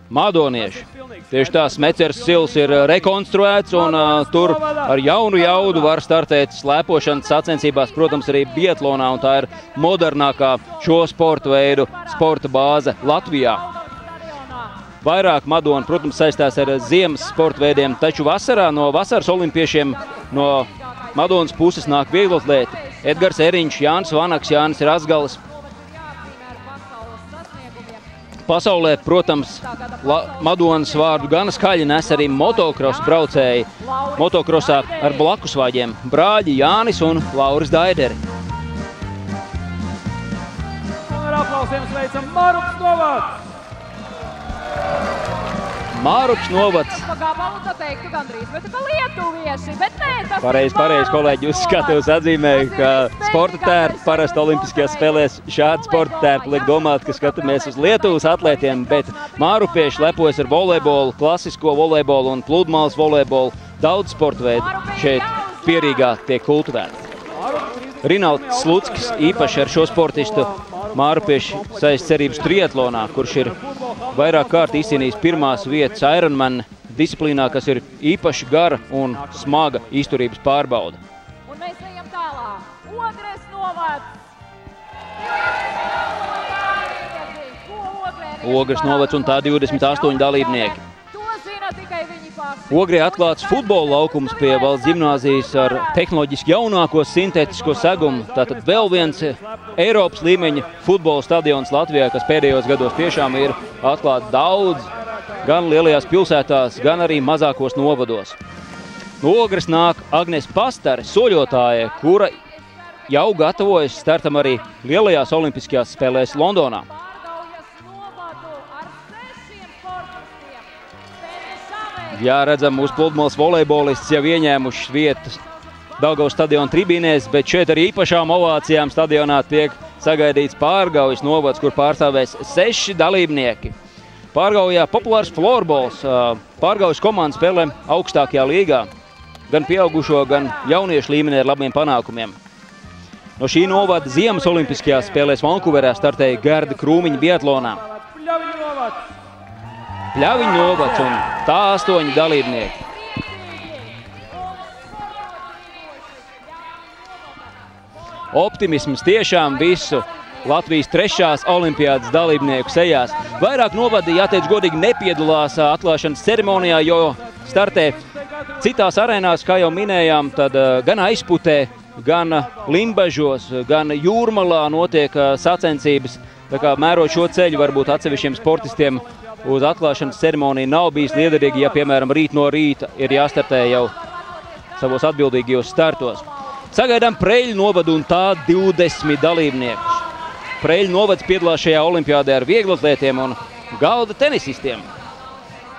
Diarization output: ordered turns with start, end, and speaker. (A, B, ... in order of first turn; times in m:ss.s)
0:00.1-0:13.6 A
0:00.6-0:05.9 B
0:07.4-0:08.7 C
0:10.6-0:14.8 C
0:15.0-0:25.4 A
0:16.7-0:18.2 C
0:20.1-0:28.0 C
0:28.5-0:38.2 A
0:29.0-0:35.3 C
0:41.1-0:43.4 B
0:45.9-0:47.0 A
0:46.3-1:00.7 C
0:50.4-1:07.0 A
1:04.4-1:06.2 C
1:07.3-1:16.3 B
1:08.0-1:13.6 A
1:14.1-1:21.0 A
1:19.1-1:20.0 B
1:21.4-1:24.1 C
1:25.8-1:36.0 C
1:28.4-1:30.8 A
1:32.7-1:44.9 A
1:37.5-1:40.6 B
1:45.4-1:48.4 A
1:45.4-1:46.0 B
1:49.2-1:52.4 A
1:53.0-1:54.3 C
1:53.1-1:56.9 A
1:56.8-2:02.3 C
2:02.1-2:05.4 A
2:06.0-2:13.7 A
2:09.9-2:12.0 C
2:14.3-2:18.9 A
2:19.5-2:22.4 A
2:23.4-2:27.8 A
2:24.8-2:29.1 B
2:30.1-2:32.8 A
2:32.0-2:37.5 C
2:38.3-2:48.0 A
2:39.5-2:40.8 C
2:41.8-2:44.5 C
2:47.9-2:50.2 B
2:48.6-3:03.9 A
2:56.5-3:00.3 B
3:01.2-3:01.9 B
3:03.1-3:05.0 C
3:04.8-3:10.0 A
3:10.6-3:14.9 A